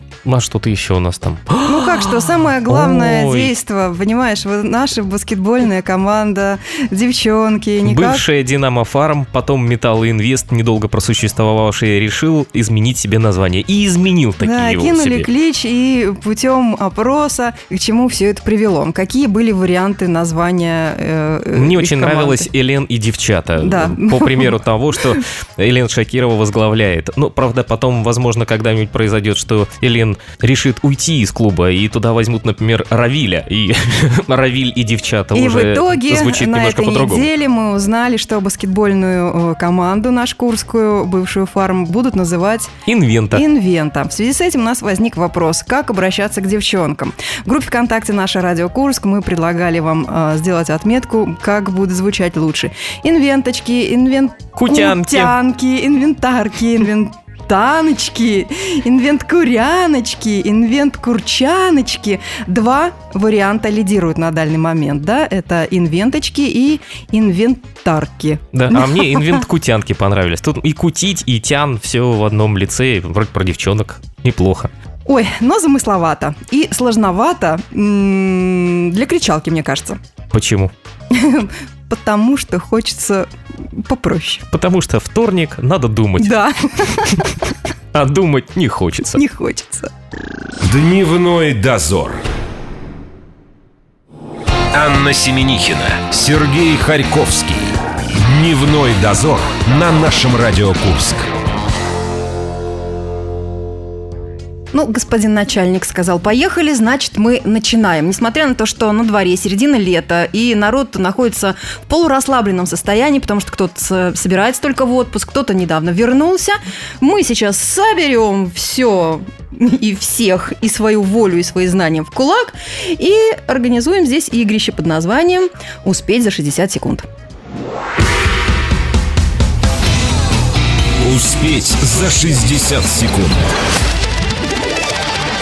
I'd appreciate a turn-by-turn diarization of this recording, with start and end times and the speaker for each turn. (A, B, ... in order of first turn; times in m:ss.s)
0:00.2-0:03.6 A
0:01.6-0:08.2 B
0:07.8-0:15.3 A
0:14.4-0:22.5 B
0:21.5-0:37.3 A
0:23.6-0:25.2 B
0:35.3-0:42.7 B
0:42.9-0:43.4 A
0:43.3-1:09.4 B
0:54.6-0:55.4 A
1:08.5-1:14.7 A
1:15.1-1:20.0 B
1:20.3-1:20.7 A
1:21.1-1:24.4 B
1:24.5-1:26.4 A
1:26.2-1:27.5 B
1:27.9-1:29.2 A
1:29.2-1:29.9 B
1:30.6-1:32.2 C
1:34.7-1:41.3 C
1:44.7-2:07.1 B
2:11.0-2:13.4 C